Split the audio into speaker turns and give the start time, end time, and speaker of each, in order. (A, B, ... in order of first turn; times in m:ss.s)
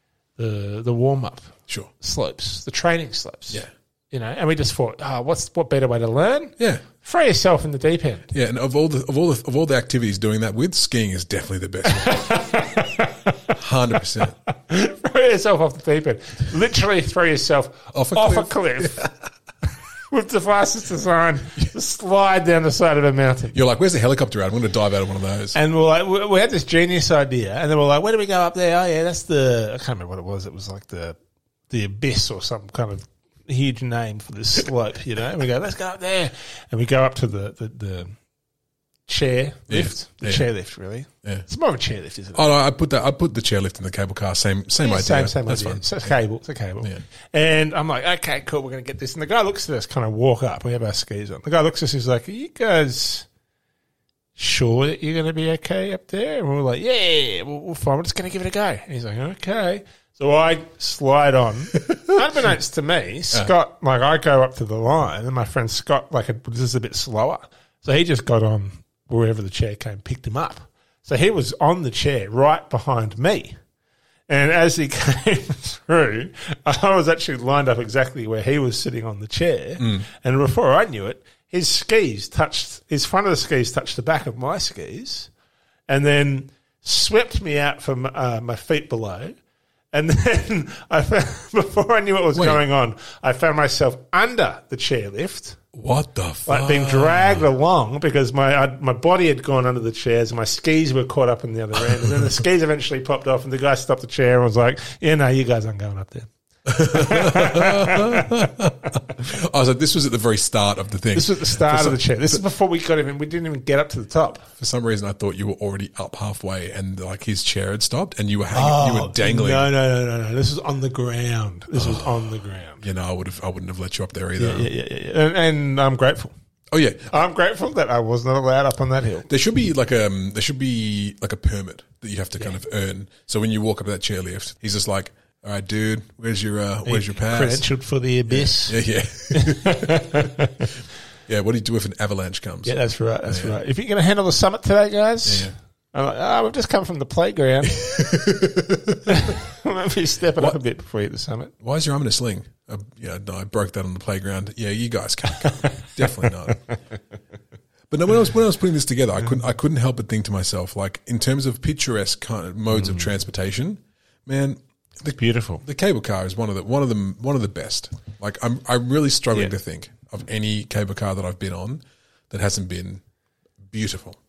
0:00.4-0:08.3 A
0:06.6-0:06.8 B
0:08.3-0:12.4 B
0:11.8-0:13.4 A
0:13.5-0:14.4 B
0:14.5-0:19.1 A
0:17.9-0:19.1 B
0:20.1-0:23.6 A
0:23.5-0:25.6 B
0:25.5-0:31.2 A
0:31.7-0:38.1 A
0:39.1-0:42.5 A
0:39.7-0:40.5 B
0:42.3-0:46.1 B
0:44.8-0:53.3 A
0:54.4-1:13.6 A
1:14.3-1:25.3 A
1:19.8-1:20.0 B
1:25.9-1:29.4 A
1:29.9-1:35.6 A
1:32.3-1:32.6 B
1:35.7-1:37.4 B
1:36.5-1:49.0 A
1:42.0-1:42.2 B
1:46.6-1:52.0 B
1:51.1-1:54.5 A
1:54.6-1:59.7 B
1:58.5-2:02.8 A
2:01.7-2:04.7 B
2:04.4-2:06.3 A
2:06.7-2:07.1 B
2:07.1-2:09.3 A
2:09.3-2:17.6 B
2:16.8-2:18.8 A
2:18.3-2:20.3 B
2:19.3-2:20.7 A
2:21.3-2:23.6 B
2:22.6-2:28.0 A
2:25.2-2:25.5 B
2:27.7-2:29.3 B
2:29.0-2:31.5 A
2:31.6-2:36.6 B
2:35.4-2:36.8 A
2:37.9-2:53.0 B
2:42.7-2:43.2 A
2:45.2-2:45.6 A
2:53.7-2:54.2 B